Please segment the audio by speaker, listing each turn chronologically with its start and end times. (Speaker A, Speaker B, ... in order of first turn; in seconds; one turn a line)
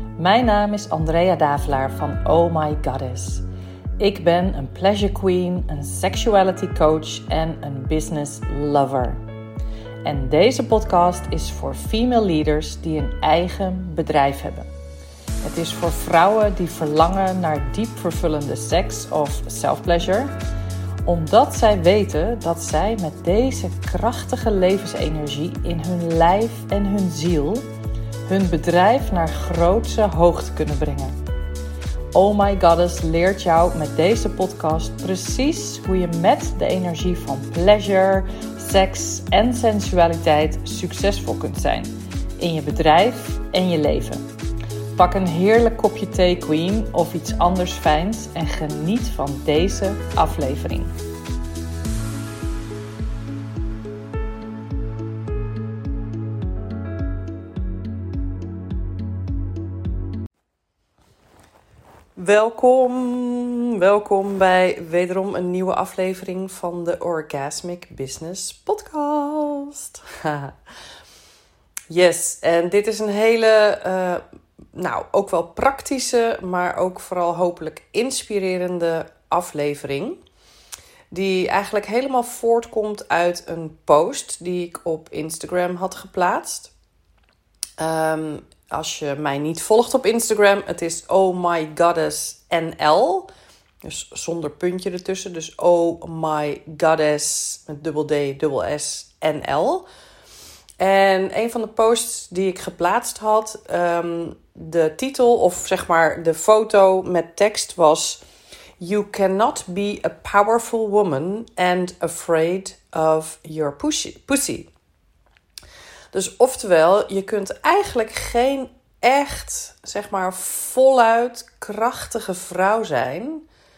Speaker A: 0.2-3.4
Speaker A: 4.0-9.2
Speaker A: 10.1-14.7
Speaker A: 15.4-20.3
Speaker A: 21.1-27.6
Speaker A: 28.3-31.2
Speaker A: 32.1-44.3
Speaker A: 45.0-50.9
Speaker A: 62.2-70.5
Speaker A: 71.9-74.2
Speaker A: 74.7-80.2
Speaker A: 81.1-86.7
Speaker A: 87.8-93.3
Speaker A: 93.8-99.9
Speaker A: 100.8-108.2
Speaker A: 108.8-114.7
Speaker A: 116.1-123.4